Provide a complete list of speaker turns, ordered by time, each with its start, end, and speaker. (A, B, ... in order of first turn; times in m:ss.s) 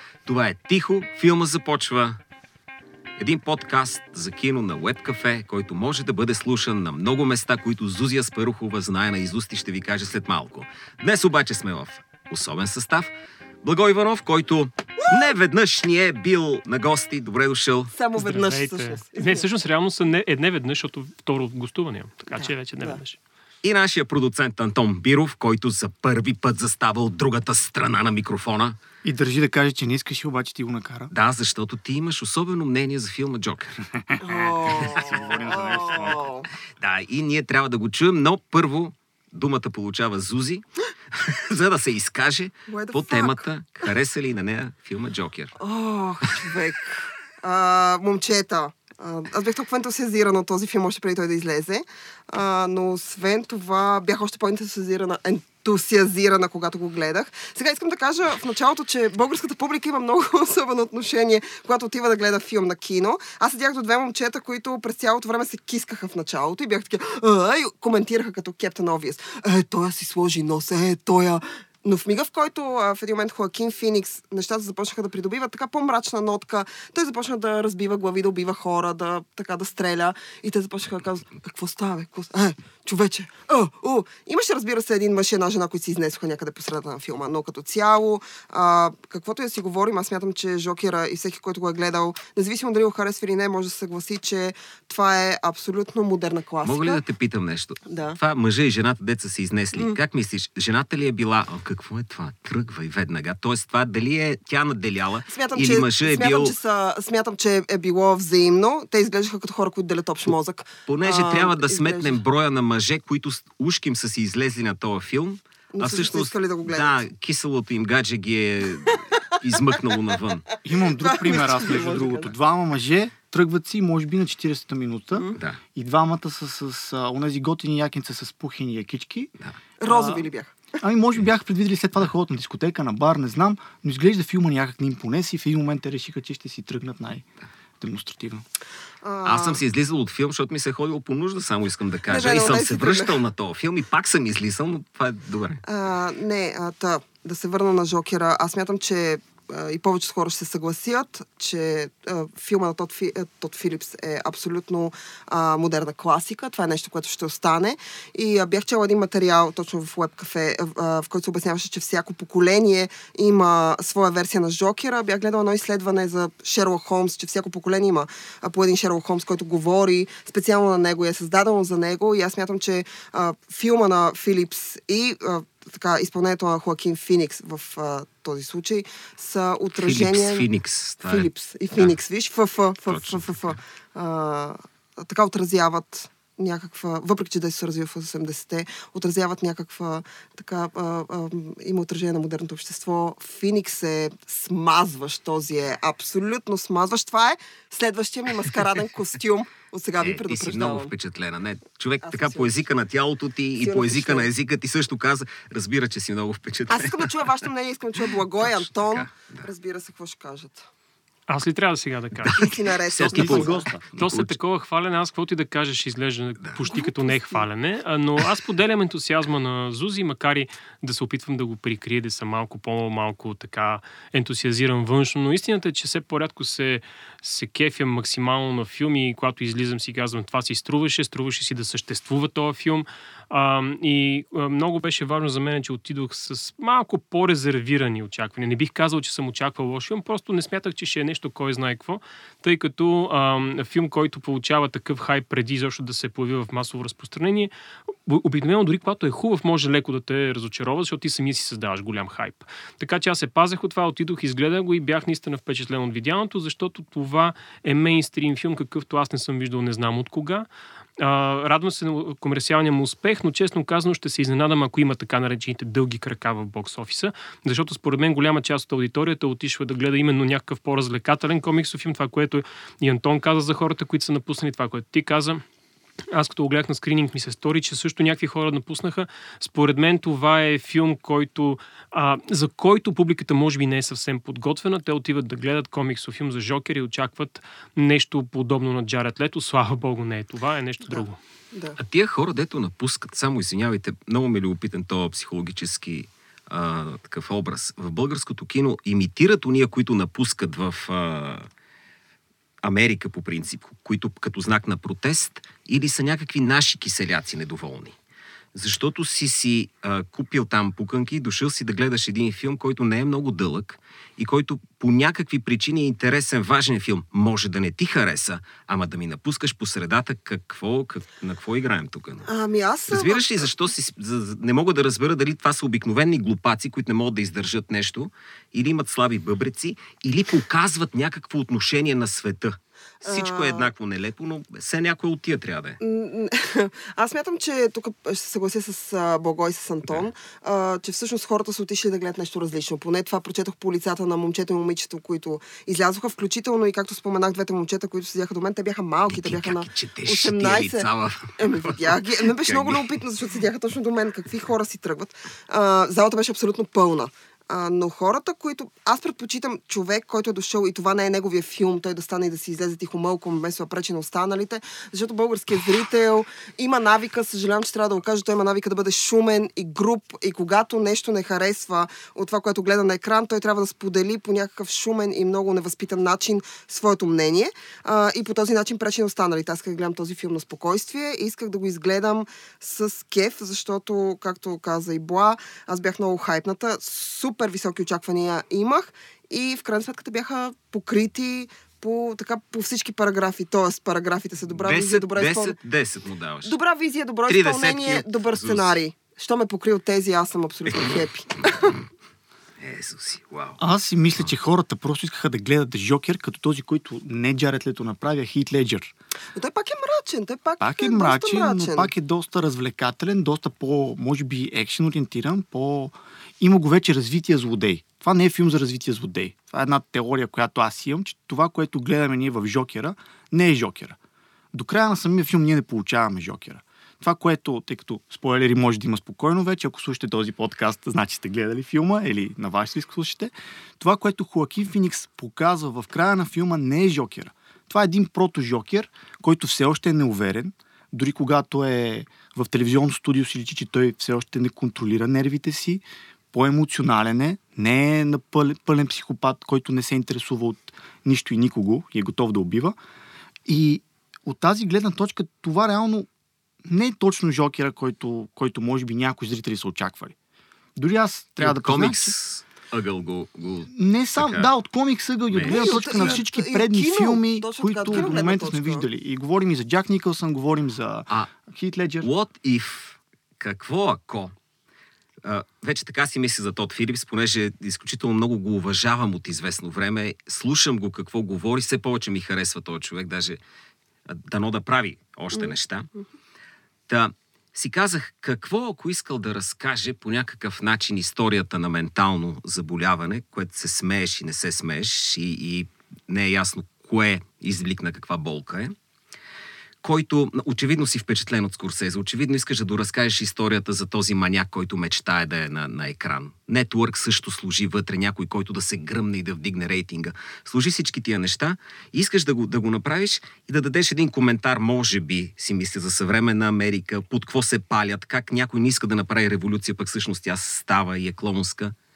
0:00.2-0:02.2 A
0:03.2-0:13.1 A
0:13.6-0:17.9 A
0:17.9-0:19.4 B
0:18.2-0:23.2 C
0:22.3-0:23.0 B
0:23.6-0:28.8 A
0:29.0-0:31.1 D
0:31.1-0:33.8 A
0:34.0-0:36.2 D
0:34.2-0:36.5 B
0:34.7-0:36.2 A
0:36.8-0:45.5 A
0:42.7-0:43.4 B
0:45.6-1:37.0 B
1:36.6-1:46.6 A
1:37.8-1:38.2 B
1:45.3-1:52.2 B
1:50.8-2:00.4 A
1:55.7-1:57.0 B
2:00.6-2:09.3 D
2:00.9-2:02.3 B
2:05.3-2:05.6 A
2:09.8-2:10.6 B
2:09.8-2:10.3 D
2:10.8-2:17.2 D
2:17.8-2:18.4 D
2:19.0-2:19.6 B
2:19.2-2:25.6 A
2:22.1-2:23.2 B
2:25.6-3:00.4 B
2:59.7-3:02.0 A
3:01.0-3:20.9 B
3:02.9-3:03.6 A
3:20.0-3:27.4 A
3:22.0-3:22.5 B
3:23.6-3:24.3 B
3:26.7-3:30.7 B
3:28.4-3:29.5 A
3:31.3-3:32.4 C
3:32.2-3:34.4 A
3:32.4-3:33.7 B
3:33.1-3:33.8 D
3:34.0-4:20.5 C
3:36.6-3:37.4 B
4:21.0-4:35.4 C
4:36.1-4:51.2 C
4:51.5-4:51.8 B
4:51.8-5:01.5 A
5:02.6-5:08.0 A
5:08.5-5:22.3 A
5:22.2-5:23.5 B
5:22.9-5:35.8 A
5:33.0-5:33.7 B
5:35.8-5:50.8 B
5:49.1-5:52.9 A
5:51.4-6:35.6 B
6:34.5-6:36.5 A
6:36.4-6:41.8 B
6:37.3-6:38.7 A
6:40.7-6:41.8 A
6:42.6-6:43.6 A
6:43.6-6:48.9 D
6:49.3-6:51.9 B
6:50.6-7:04.0 D
7:04.5-7:32.8 D
7:33.4-7:36.1 D
7:36.6-7:40.1 D
7:40.8-7:42.1 D
7:41.4-7:44.5 A
7:43.7-7:52.1 D
7:45.3-7:46.2 A
7:45.4-7:48.8 B
7:47.9-7:48.2 A
7:52.0-7:54.3 A
7:55.2-8:03.4 A
8:04.1-8:05.9 A
8:06.9-8:18.7 A
8:19.8-8:41.7 A